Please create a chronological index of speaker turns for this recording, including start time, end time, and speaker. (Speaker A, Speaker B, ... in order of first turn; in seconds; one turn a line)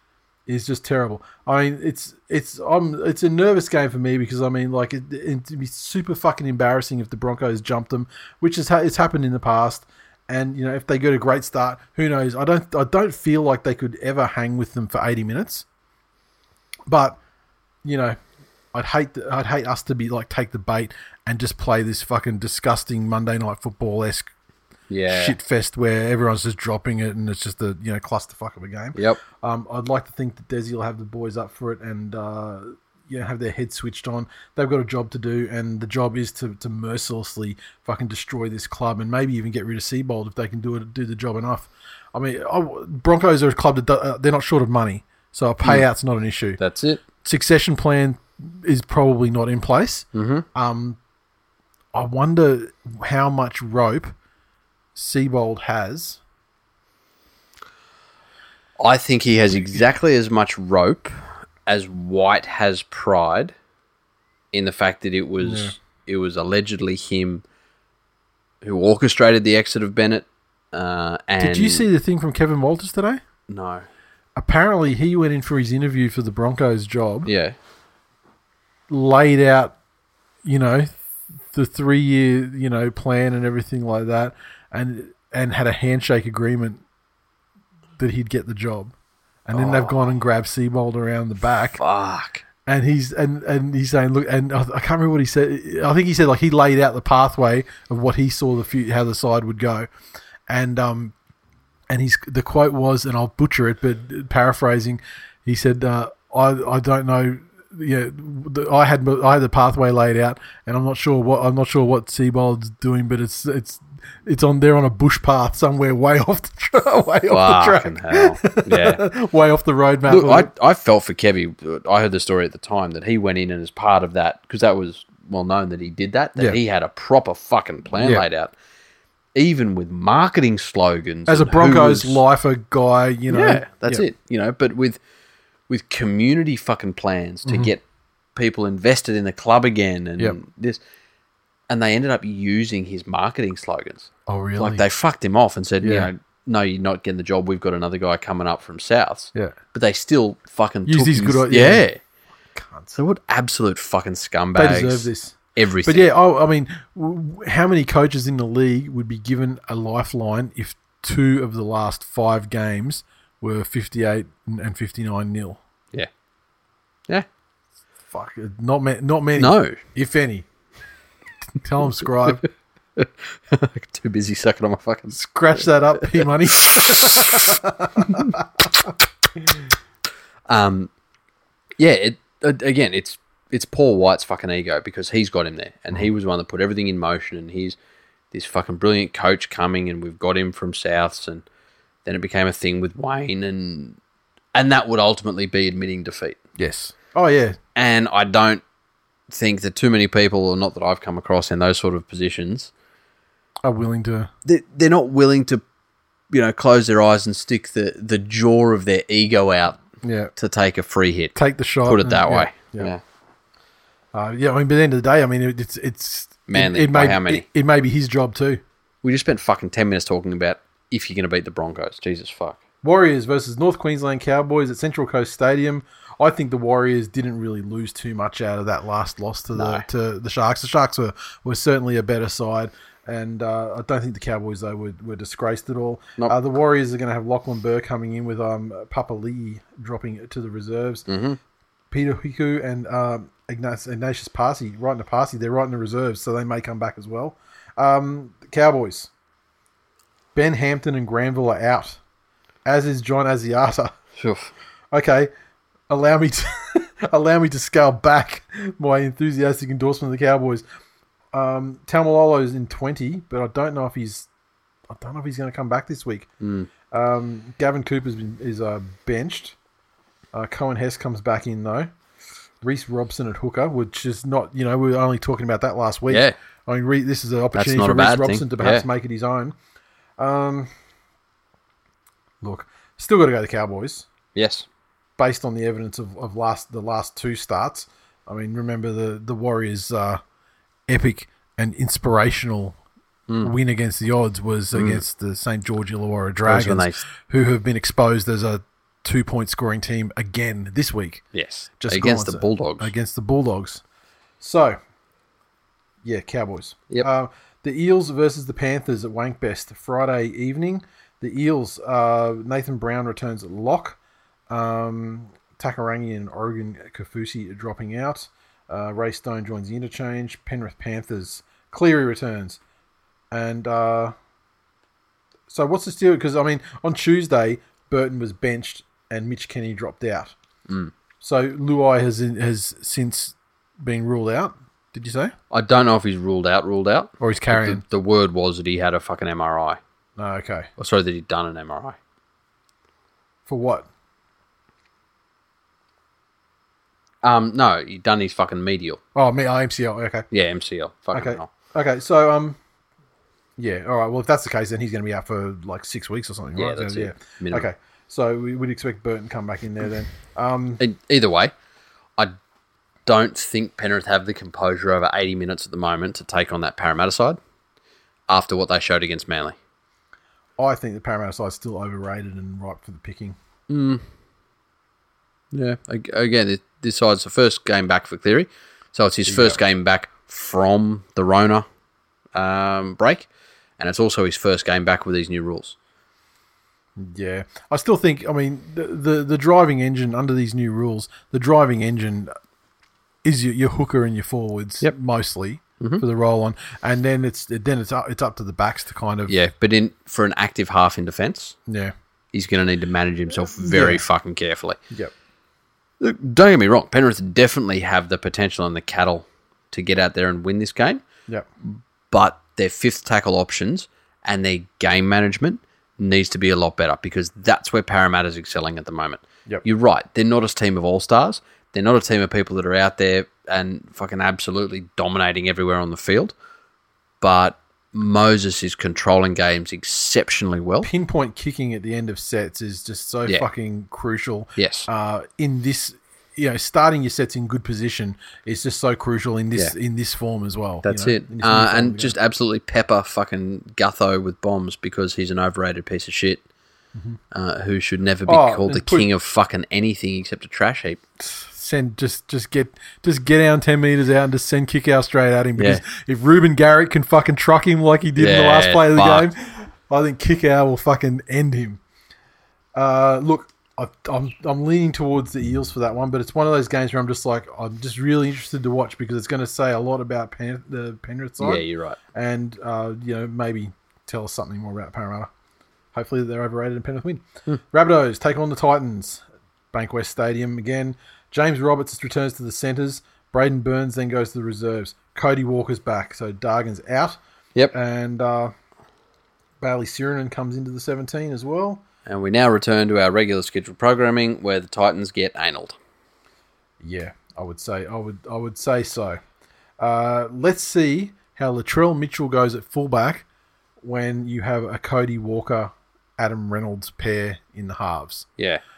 Speaker A: 0.5-15.7
Speaker A: 16.9-17.2
Speaker A: 17.8-18.2
Speaker A: 18.7-24.3
Speaker B: 24.9-25.4
Speaker A: 25.1-46.6
Speaker B: 28.9-29.2
Speaker B: 46.6-47.0
Speaker A: 47.2-51.0
Speaker B: 50.1-50.5
Speaker A: 51.9-54.1
Speaker A: 55.0-56.2
Speaker B: 58.8-63.5
Speaker B: 64.5-67.4
Speaker A: 65.4-65.8
Speaker B: 68.6-71.9
Speaker A: 71.4-73.2
Speaker B: 73.5-73.9
Speaker A: 74.4-77.3
Speaker B: 77.3-77.6
Speaker A: 78.9-79.8
Speaker A: 80.4-80.9
Speaker A: 81.5-86.8
Speaker A: 88.0-88.9
Speaker A: 89.5-91.8
Speaker B: 89.5-90.0
Speaker B: 91.7-92.4
Speaker A: 92.7-99.9
Speaker A: 100.5-101.1
Speaker A: 101.9-120.5
Speaker B: 117.3-119.0
Speaker B: 120.1-128.5
Speaker A: 128.0-128.2
Speaker B: 129.3-132.2
Speaker A: 131.3-134.1
Speaker B: 133.3-135.0
Speaker B: 135.7-137.8
Speaker A: 137.5-137.7
Speaker B: 138.3-140.8
Speaker B: 141.7-152.0
Speaker A: 144.3-144.8
Speaker A: 145.8-146.1
Speaker A: 150.9-151.9
Speaker A: 152.5-153.0
Speaker B: 152.9-156.1
Speaker A: 154.6-165.6
Speaker A: 168.1-170.5
Speaker B: 169.4-169.8
Speaker A: 171.6-172.5
Speaker B: 173.0-177.5
Speaker A: 175.1-178.7
Speaker B: 180.5-180.9
Speaker B: 181.8-187.8
Speaker B: 188.3-191.4
Speaker B: 192.1-194.0
Speaker B: 194.5-196.4
Speaker A: 196.6-197.6
Speaker B: 197.8-198.6
Speaker B: 199.3-202.7
Speaker A: 203.6-204.3
Speaker B: 204.4-205.6
Speaker B: 206.3-209.8
Speaker A: 210.0-210.3
Speaker B: 210.4-213.0
Speaker A: 211.3-212.9
Speaker A: 214.1-218.6
Speaker B: 216.5-217.4
Speaker B: 219.0-222.6
Speaker A: 222.8-241.1
Speaker B: 229.5-229.8
Speaker B: 241.1-241.4
Speaker A: 241.9-249.1
Speaker A: 250.3-252.0
Speaker A: 252.7-253.9
Speaker B: 254.2-254.5
Speaker A: 254.9-255.3
Speaker A: 255.9-260.6
Speaker A: 261.3-264.3
Speaker A: 264.9-266.3
Speaker B: 266.4-266.7
Speaker A: 266.9-269.6
Speaker A: 270.3-271.9
Speaker A: 272.6-279.6
Speaker B: 276.1-276.4
Speaker B: 277.6-278.9
Speaker A: 280.2-280.7
Speaker A: 282.4-284.1
Speaker B: 284.4-284.7
Speaker A: 285.2-290.2
Speaker A: 290.9-292.8
Speaker A: 293.4-301.2
Speaker B: 294.7-295.0
Speaker B: 296.4-297.0
Speaker B: 301.3-302.9
Speaker A: 301.8-303.8
Speaker A: 304.4-304.8
Speaker A: 306.0-314.0
Speaker A: 314.5-322.6
Speaker A: 323.3-324.1
Speaker A: 325.5-330.3
Speaker B: 330.7-330.9
Speaker A: 331.2-335.3
Speaker B: 335.5-339.8
Speaker A: 337.2-337.8
Speaker A: 340.2-340.7
Speaker B: 340.8-342.0
Speaker A: 343.5-343.9
Speaker B: 347.2-349.0
Speaker A: 349.1-350.3
Speaker B: 350.3-351.5
Speaker A: 351.1-352.6
Speaker A: 353.6-360.8
Speaker B: 356.6-357.7
Speaker B: 360.8-361.5
Speaker B: 363.1-367.4
Speaker B: 368.3-369.6
Speaker A: 370.6-373.4
Speaker B: 373.7-374.0
Speaker B: 375.5-381.7
Speaker A: 379.3-379.6
Speaker B: 382.3-383.3
Speaker B: 383.8-385.8
Speaker A: 387.0-392.3
Speaker A: 393.2-399.4
Speaker B: 399.3-401.6
Speaker A: 401.7-401.9
Speaker B: 402.3-404.8
Speaker A: 403.6-404.0
Speaker B: 406.0-411.0
Speaker B: 411.6-426.3
Speaker B: 427.2-430.9
Speaker A: 430.8-442.1
Speaker B: 434.6-434.9
Speaker B: 440.8-446.4
Speaker B: 447.3-451.0
Speaker A: 448.3-449.1
Speaker A: 451.2-461.8
Speaker B: 455.6-455.8
Speaker B: 458.2-459.3
Speaker A: 462.8-475.3
Speaker B: 471.4-472.0
Speaker A: 475.9-487.2
Speaker A: 487.7-488.5
Speaker A: 489.6-491.8
Speaker B: 492.1-495.8
Speaker A: 496.8-499.2
Speaker A: 499.8-503.2
Speaker A: 503.8-508.3